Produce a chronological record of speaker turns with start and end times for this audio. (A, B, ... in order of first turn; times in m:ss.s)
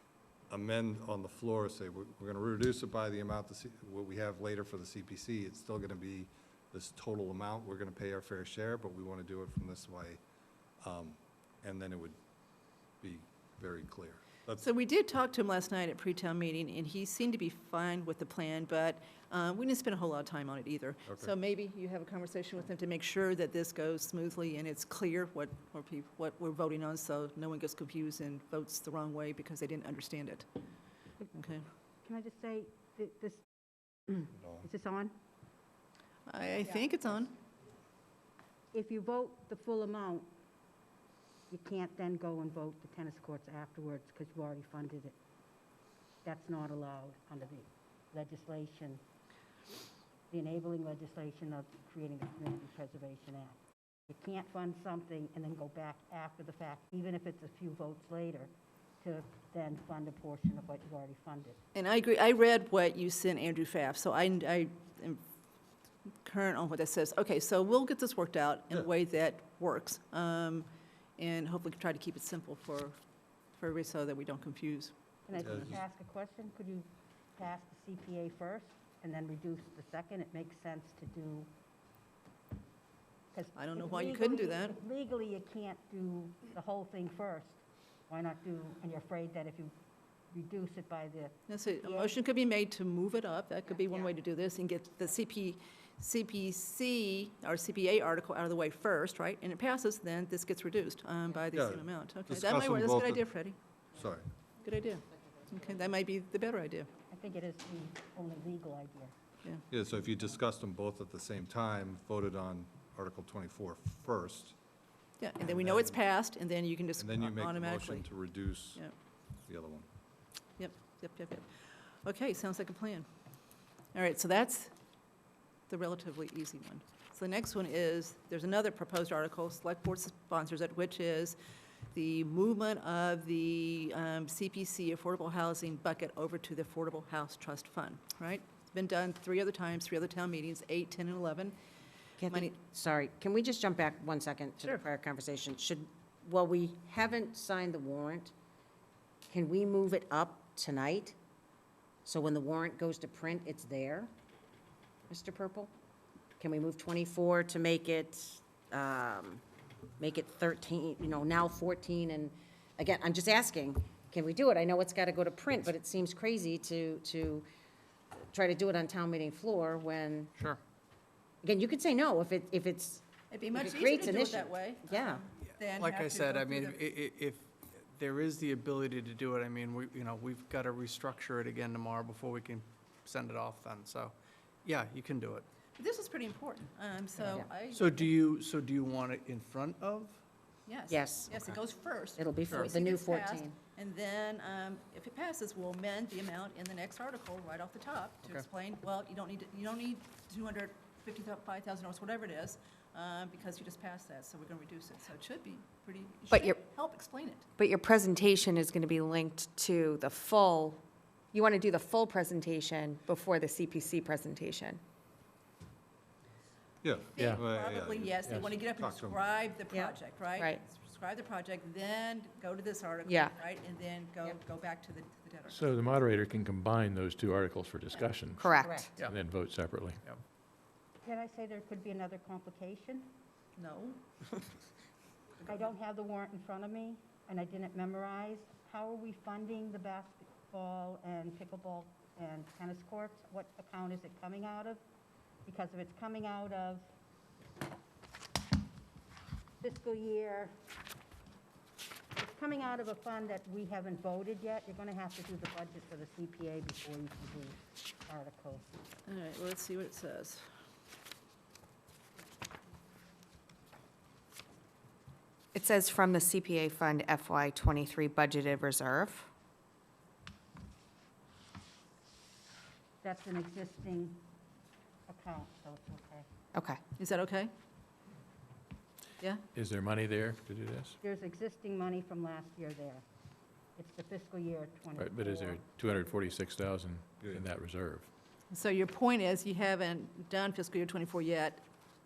0:00.5-0:10.2 A
0:10.8-0:12.2 A
0:13.0-0:14.7 A
0:14.6-0:30.4 B
0:31.3-0:31.6 B
0:32.0-0:33.4 C
0:34.0-0:35.1 C
0:36.3-0:37.3 B
0:38.7-0:40.3 C
0:41.5-0:45.2 C
0:46.2-0:49.0 C
0:50.3-0:53.6 C
0:54.1-1:01.6 C
1:01.7-1:05.2 B
1:06.2-1:13.0 B
1:13.6-1:15.8 B
1:15.3-1:21.5 C
1:15.4-1:15.7 A
1:23.3-1:29.7 C
1:23.6-1:24.8 B
1:30.3-1:32.1 C
1:31.5-1:43.6 B
1:41.5-1:43.2 A
1:43.9-1:44.2 A
1:44.6-1:46.9 B
1:47.1-1:49.1 C
1:49.7-1:54.6 A
1:55.2-1:58.1 B
1:55.4-1:56.0 A
1:57.0-1:58.8 A
1:59.4-1:59.8 A
2:00.6-2:01.5 B
2:02.0-2:03.0 B
2:03.9-2:04.7 B
2:05.7-2:11.4 B
2:11.9-2:21.6 B
2:22.2-2:28.3 D
2:22.3-2:22.5 B
2:29.3-2:31.1 D
2:32.0-2:34.1 D
2:35.1-2:35.7 D
2:36.4-2:39.4 D
2:40.0-2:47.4 D
2:48.3-2:50.3 D
2:51.4-2:55.2 D
2:53.3-2:56.8 B
2:55.7-3:05.4 E
3:05.8-3:08.1 B
3:07.7-3:10.2 E
3:10.7-3:27.4 B
3:10.9-3:11.5 D
3:12.2-3:13.6 D
3:26.3-3:26.6 F
3:27.6-3:30.8 F
3:31.3-3:34.8 F
3:36.8-3:39.2 A
3:37.1-3:45.6 B
3:37.2-3:37.4 G
3:39.7-3:40.6 F
3:43.0-3:43.3 F
3:45.5-3:50.0 G
3:48.4-3:48.9 F
3:48.6-3:48.9 D
3:51.0-3:53.1 C
3:53.6-3:54.0 B
3:55.4-4:04.8 C
4:05.4-4:06.9 C
4:09.6-4:10.5 C
4:12.2-4:18.8 C
4:19.1-4:20.4 B
4:25.5-4:29.3 F
4:33.0-4:34.2 C
4:35.1-4:36.2 C
4:36.5-4:36.8 F
4:37.0-4:37.5 B
4:39.5-4:41.0 G
4:41.0-4:43.0 C
4:43.8-4:45.6 C
4:45.0-4:48.1 G
4:48.5-4:51.6 B